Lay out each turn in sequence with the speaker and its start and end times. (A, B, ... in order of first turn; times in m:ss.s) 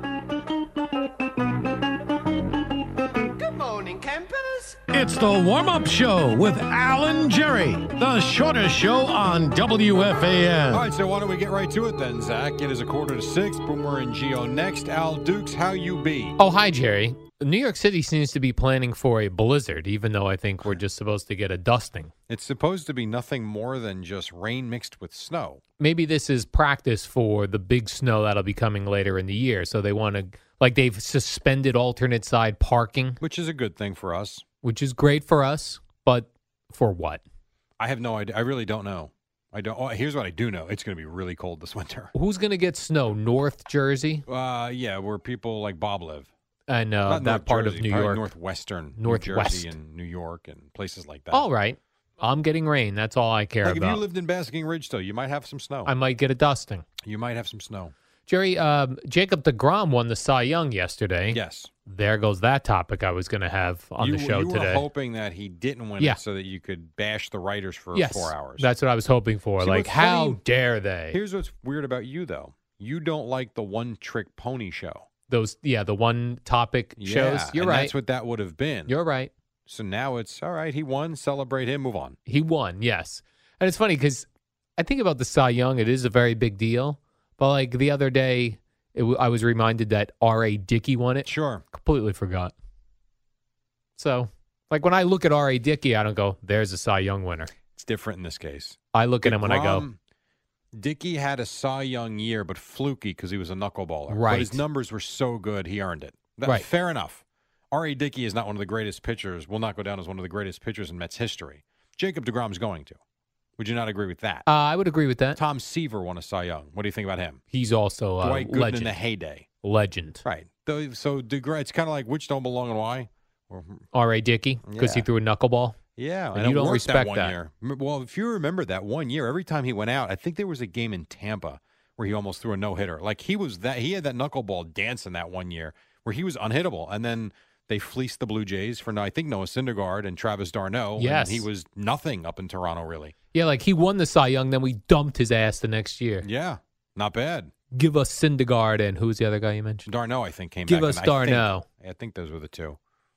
0:03.4-0:10.9 A
0:10.7-0:16.4 B
0:16.4-0:22.1 C
0:22.3-0:25.6 B
0:25.8-0:33.2 C
0:33.2-0:34.4 B
0:34.6-0:37.2 C
0:37.8-0:42.1 B
0:42.1-0:44.2 C
0:44.3-0:46.3 B
0:46.7-0:48.3 C
0:47.1-0:51.5 B
0:49.0-0:49.7 C
0:51.3-0:54.0 C
0:53.6-0:55.9 B
0:55.8-0:56.8 C
0:57.0-0:57.9 B
0:58.3-1:04.8 C
1:01.3-1:01.7 B
1:04.0-1:08.7 B
1:07.9-1:11.2 C
1:09.6-1:10.4 B
1:11.1-1:15.1 B
1:15.3-1:17.9 C
1:17.0-1:18.9 B
1:18.9-1:19.3 C
1:19.7-1:22.2 B
1:22.3-1:24.3 C
1:24.8-1:32.5 C
1:31.3-1:31.6 B
1:34.0-1:37.5 C
1:37.8-1:40.0 B
1:38.9-1:39.8 C
1:40.8-1:53.0 B
1:44.1-1:44.6 C
1:53.6-1:54.5 B
1:54.5-1:55.4 C
1:55.4-1:57.4 B
1:57.5-1:59.0 C
1:58.2-1:59.5 B
1:59.6-2:00.2 C
2:00.2-2:03.9 B
2:03.9-2:05.8 C
2:04.6-2:05.0 B
2:06.0-2:23.1 B
2:06.4-2:07.4 C
2:21.0-2:21.5 C
2:23.3-2:26.3 C
2:26.2-2:27.5 B
2:27.7-2:29.9 C
2:29.9-2:32.8 B
2:30.7-2:31.6 C